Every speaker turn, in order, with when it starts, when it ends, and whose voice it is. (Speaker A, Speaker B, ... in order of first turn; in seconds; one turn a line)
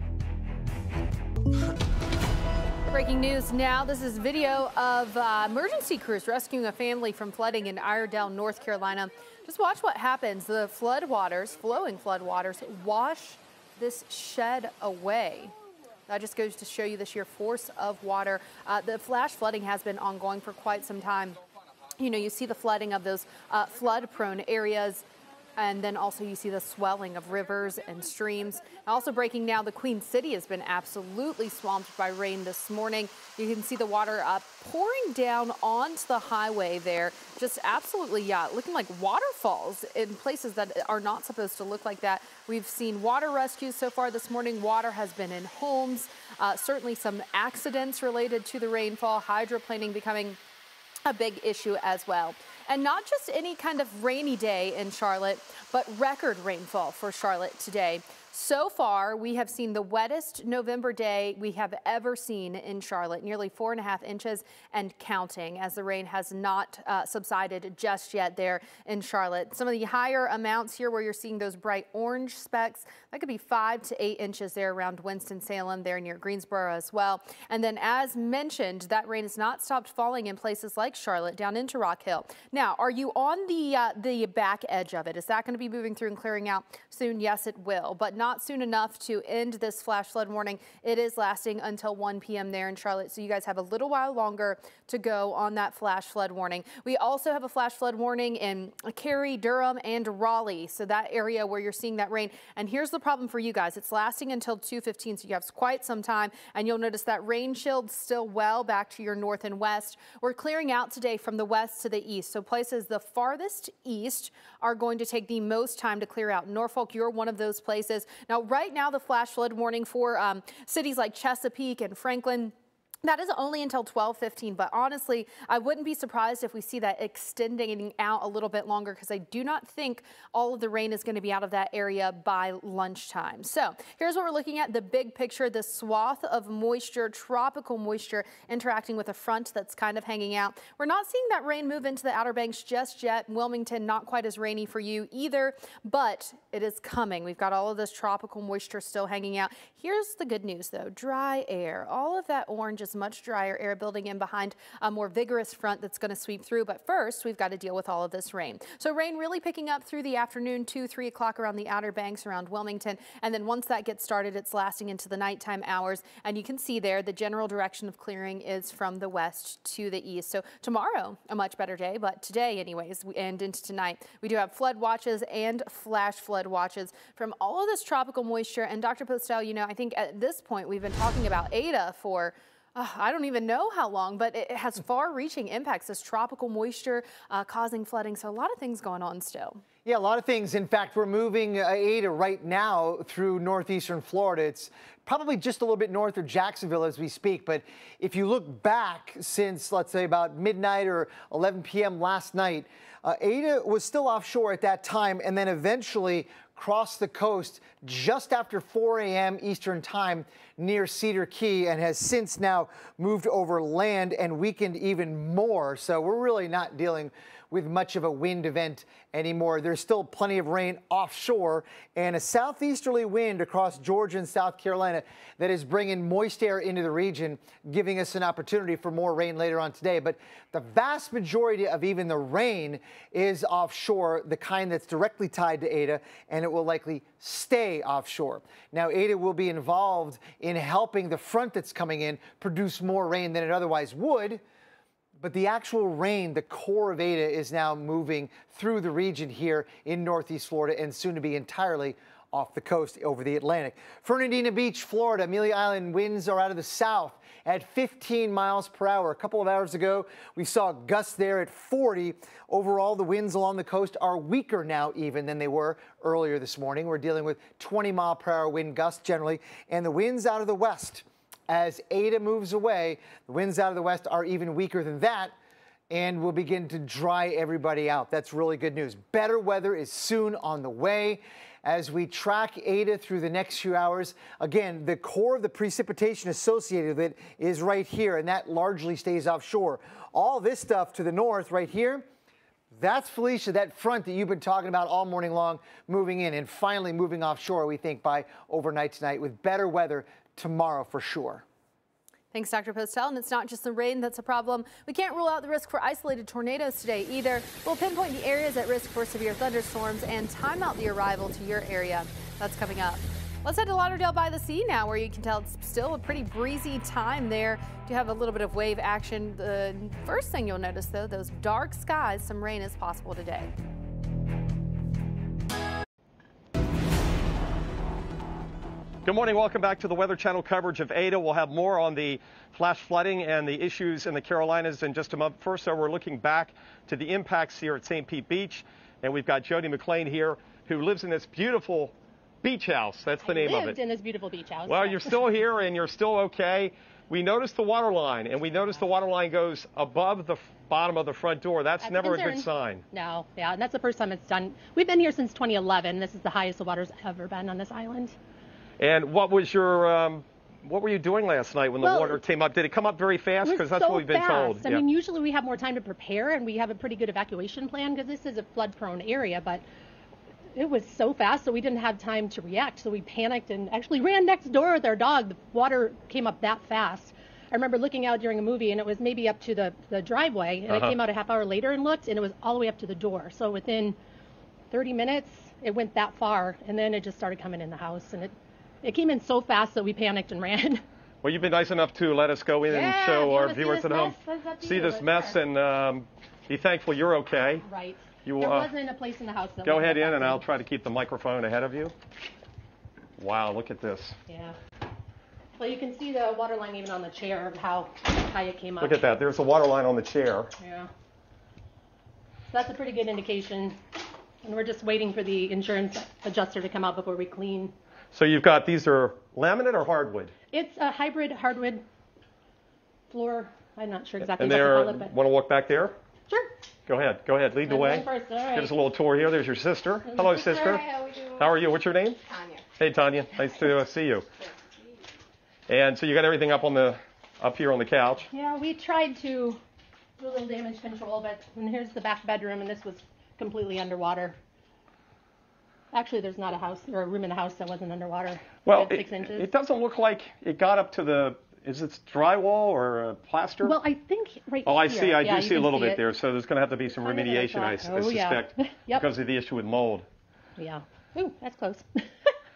Speaker A: 2.9-15.5
Speaker A: 16.1-21.4
Speaker A: 22.0-25.0
Speaker A: 25.6-50.4
Speaker A: 51.0-189.6
Speaker B: 189.8-244.4
Speaker B: 245.2-275.3
Speaker B: 275.9-292.0
Speaker B: 292.7-301.4
Speaker A: 302.3-323.5
Speaker C: 329.0-343.8
Speaker D: 343.2-345.2
Speaker C: 344.6-352.8
Speaker D: 351.8-358.1
Speaker C: 358.8-364.8
Speaker D: 361.8-362.2
Speaker D: 363.4-369.6
Speaker D: 370.6-384.0
Speaker C: 380.7-380.9
Speaker D: 384.7-390.8
Speaker C: 391.2-397.6
Speaker D: 392.7-395.4
Speaker D: 397.6-400.4
Speaker C: 398.2-398.7
Speaker C: 399.6-401.9
Speaker C: 403.2-404.2
Speaker D: 404.3-404.6
Speaker D: 405.6-409.0
Speaker C: 408.8-410.5
Speaker D: 410.6-410.9
Speaker D: 412.5-413.8
Speaker D: 414.4-417.7
Speaker C: 418.1-420.3
Speaker D: 420.5-421.8
Speaker D: 423.1-425.1
Speaker C: 424.2-425.9
Speaker C: 426.9-430.8
Speaker D: 427.6-428.7
Speaker D: 430.0-431.0
Speaker C: 431.4-432.2
Speaker C: 432.8-434.3
Speaker C: 435.7-438.3
Speaker D: 438.3-439.6
Speaker D: 440.2-444.4
Speaker D: 445.9-449.5
Speaker C: 448.6-453.8
Speaker D: 453.6-456.0
Speaker C: 454.6-460.1
Speaker D: 456.9-459.1
Speaker D: 460.6-462.3